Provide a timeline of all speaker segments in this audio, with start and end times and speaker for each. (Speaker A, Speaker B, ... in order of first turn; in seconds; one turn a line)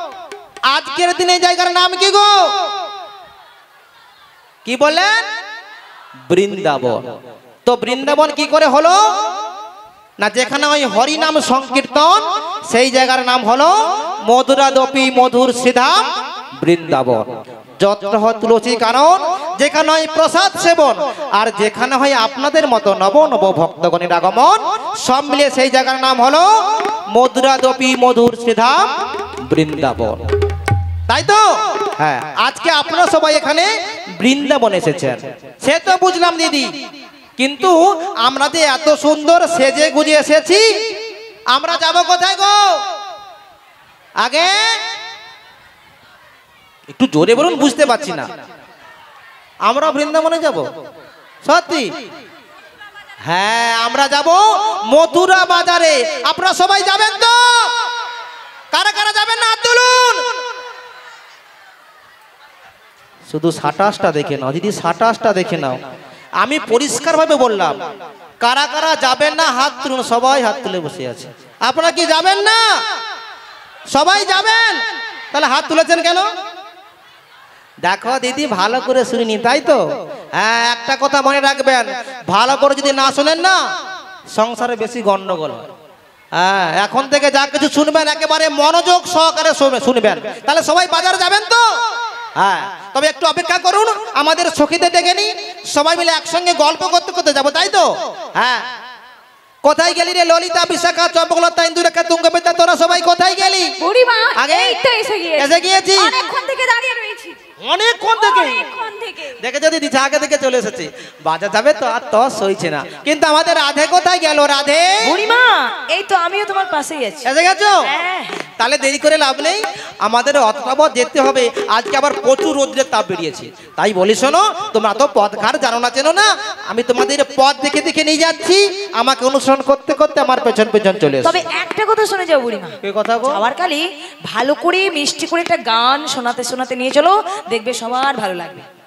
Speaker A: 0.7-2.5
Speaker A: 4.6-5.2
Speaker A: 6.3-7.0
Speaker A: 7.7-9.0
Speaker A: 10.2-16.1
Speaker A: 16.6-17.3
Speaker A: 17.8-30.2
Speaker A: 31.1-36.7
Speaker A: 37.4-40.6
Speaker A: 41.5-42.7
Speaker A: 44.2-44.6
Speaker A: 46.9-48.3
Speaker A: 49.6-50.7
Speaker A: 51.4-51.9
Speaker A: 53.2-57.7
Speaker A: 58.7-60.2
Speaker A: 63.3-65.8
Speaker A: 66.4-67.8
Speaker A: 68.4-72.6
Speaker A: 73.9-74.8
Speaker A: 75.3-76.3
Speaker A: 77.8-79.8
Speaker A: 80.4-83.6
Speaker A: 84.3-85.7
Speaker A: 86.3-91.6
Speaker A: 92.4-98.6
Speaker A: 99.6-103.7
Speaker B: 103.8-107.4
Speaker A: 104.3-104.8
Speaker A: 105.4-106.2
Speaker A: 107.6-108.6
Speaker B: 108.1-109.4
Speaker A: 109.4-115.0
Speaker C: 115.0-117.3
Speaker A: 117.2-117.8
Speaker C: 117.8-118.4
Speaker A: 118.6-131.3
Speaker C: 131.2-138.6
Speaker A: 132.8-133.4